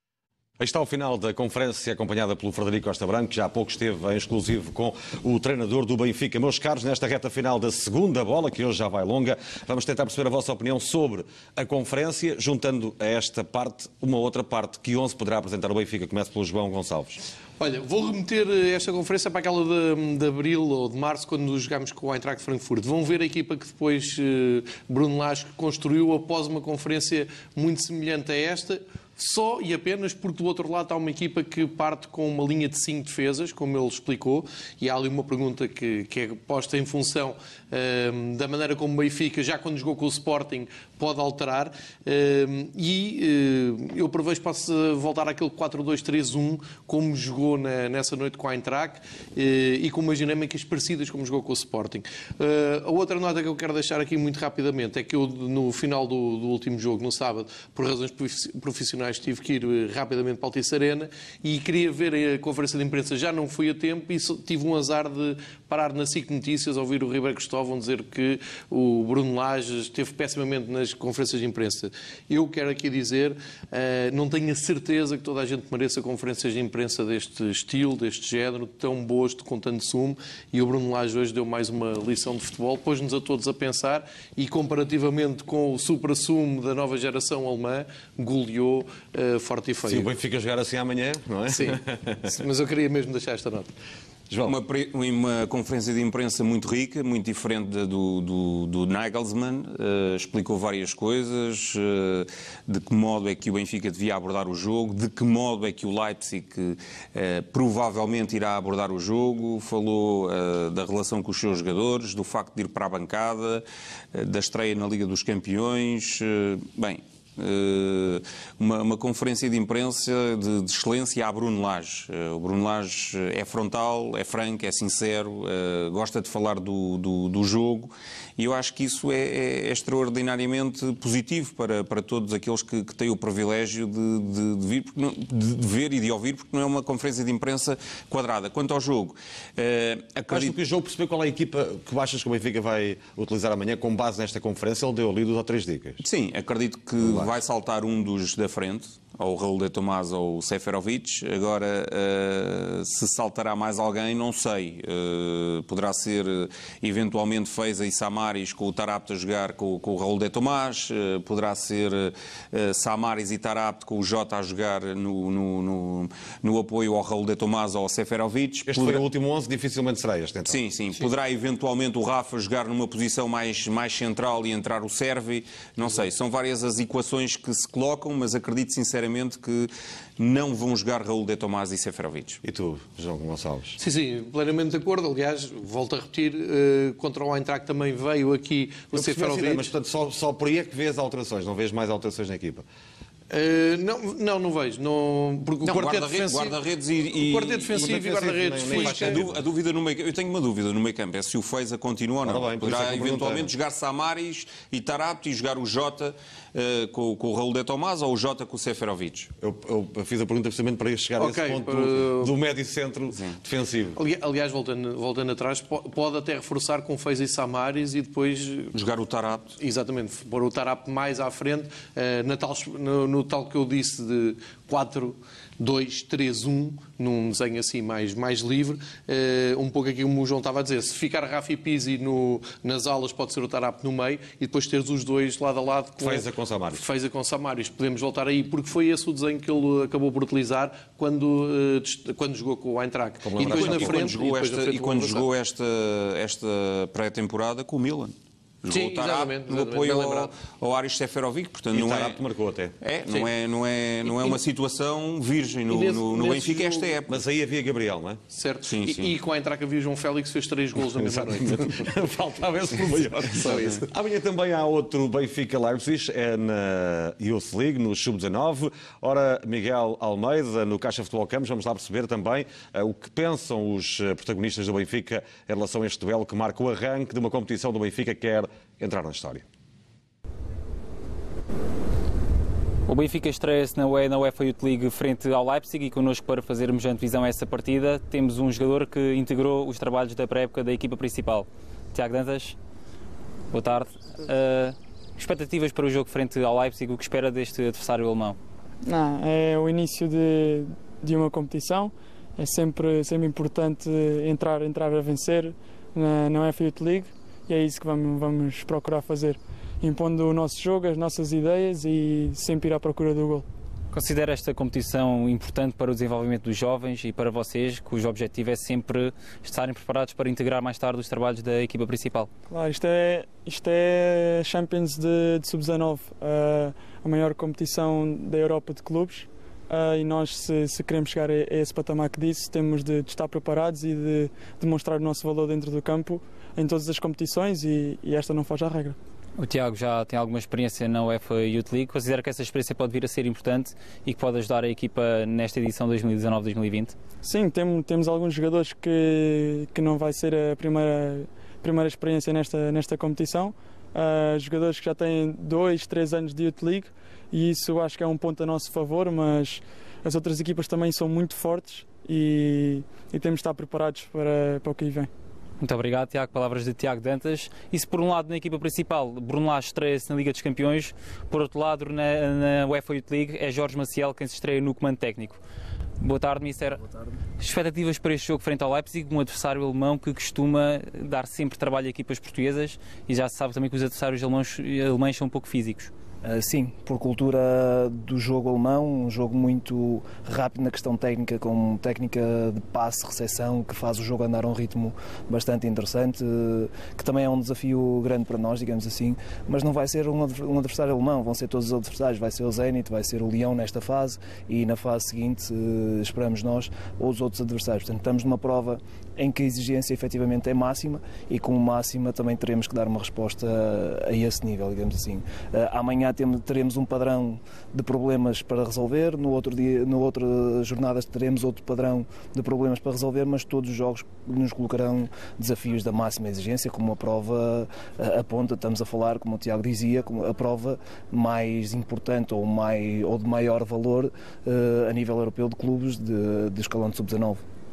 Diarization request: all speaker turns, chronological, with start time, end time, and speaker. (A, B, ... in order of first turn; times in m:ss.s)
0:00.6-0:17.2 A
0:17.6-1:30.1 B
1:29.8-1:32.3 A
1:31.5-1:33.7 B
1:34.3-1:34.5 A
1:34.4-2:20.6 C
2:20.3-2:26.0 A
2:26.0-2:49.0 C
2:27.0-2:27.3 A
2:48.7-2:50.6 A
2:50.4-3:02.4 C
3:02.4-3:03.8 A
3:03.8-3:09.7 B
3:08.9-3:12.6 A
3:13.3-3:16.6 B
3:15.6-3:18.0 C
3:17.1-3:19.2 B
3:17.8-3:19.4 A
3:18.6-3:29.3 C
3:22.2-3:23.5 A
3:29.4-3:34.0 A
3:31.2-3:32.3 B
3:33.1-3:33.4 C
3:34.0-3:38.7 B
3:38.7-3:39.6 C
3:39.6-4:05.2 B
3:56.0-3:56.8 A
4:03.2-4:04.1 A
4:03.4-4:12.2 C
4:08.7-4:10.3 B
4:11.7-4:12.7 A
4:12.8-4:17.1 C
4:14.1-4:14.4 B
4:15.7-4:17.0 B
4:17.1-4:18.2 A
4:18.3-4:21.9 B
4:18.6-4:19.1 C
4:20.9-4:39.4 A
4:23.3-4:23.9 B
4:42.9-4:52.6 D
4:53.5-4:58.4 D
4:58.8-5:13.4 E
5:13.9-5:22.3 D
5:22.5-5:39.0 E
5:39.4-5:47.0 D
5:47.2-6:05.1 E
6:05.6-6:15.4 D
6:16.0-6:16.8 D
6:17.4-6:25.9 D
6:26.2-7:17.4 F